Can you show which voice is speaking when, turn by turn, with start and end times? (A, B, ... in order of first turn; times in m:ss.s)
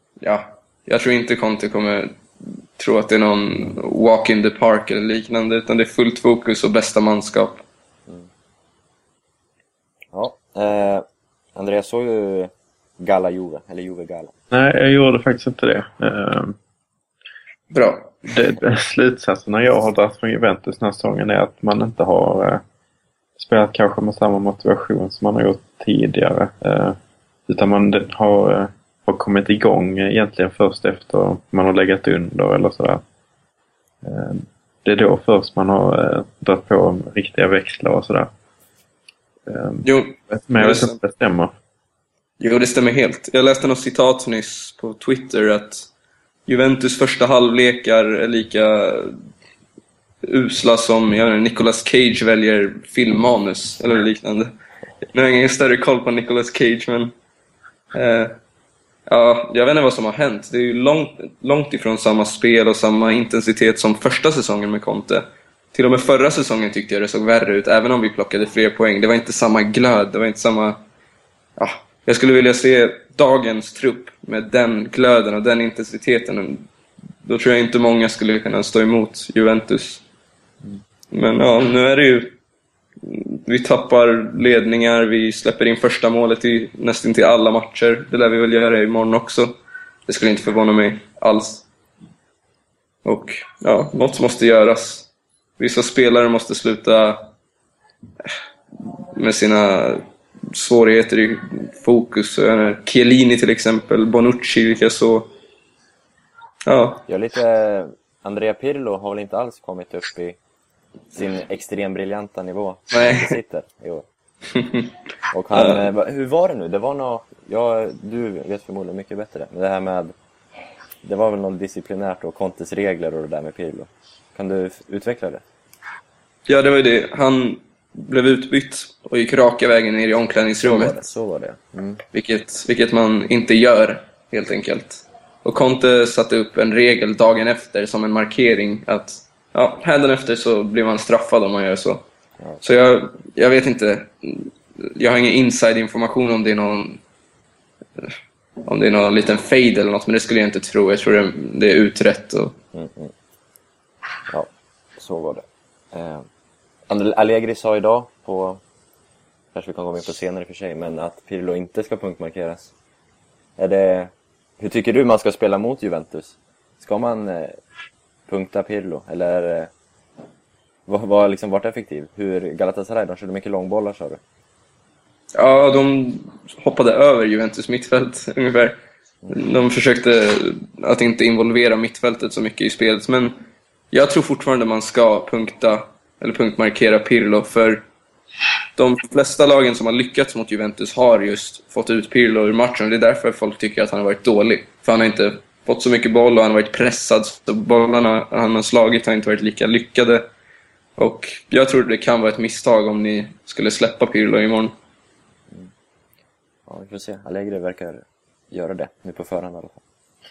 0:00.2-0:02.2 A
0:02.8-0:07.6 A
0:10.1-0:11.0 B
0:11.6-0:14.3 B
0:14.5-0:16.6 C
0:17.7-0:18.1 A
0:18.2-0:22.6 C
0:23.4-0:27.0 C
0:27.5-0:33.0 C
0:34.0-0:38.3 C
0:39.4-0:41.5 C
0:39.8-0:41.0 A
0:42.4-0:45.9 A
0:46.5-0:49.2 A
0:50.2-0:54.5 A
0:55.1-0:57.1 A
0:57.9-0:58.3 A
0:59.1-1:10.8 A
1:11.6-1:16.6 A
1:17.2-1:20.0 A
1:21.1-1:22.4 A
1:23.0-1:29.5 A
1:30.1-1:31.6 A
1:33.0-1:35.1 A
1:35.6-1:37.3 A
1:39.1-1:45.3 A
1:46.6-1:47.0 A
1:47.1-1:50.4 B
1:51.1-1:54.0 B
1:52.9-1:53.4 A
1:54.5-1:54.9 A
1:55.3-2:00.1 B
1:55.5-1:55.8 A
2:01.0-2:05.4 B
2:06.5-2:11.1 A
2:10.6-2:12.0 B
2:12.1-2:22.0 A
2:22.6-2:27.0 A
2:28.6-2:32.6 A
2:32.7-2:33.1 B
2:34.3-2:36.3 B
2:36.9-2:38.6 B
2:39.5-2:42.7 B
2:43.6-2:47.6 B
2:48.3-2:49.7 B
2:50.9-2:54.2 B
2:55.3-2:58.8 A
2:59.3-3:03.4 A
3:03.9-3:07.8 A
3:08.8-3:20.2 A
3:21.0-3:24.7 A
3:26.7-3:29.8 B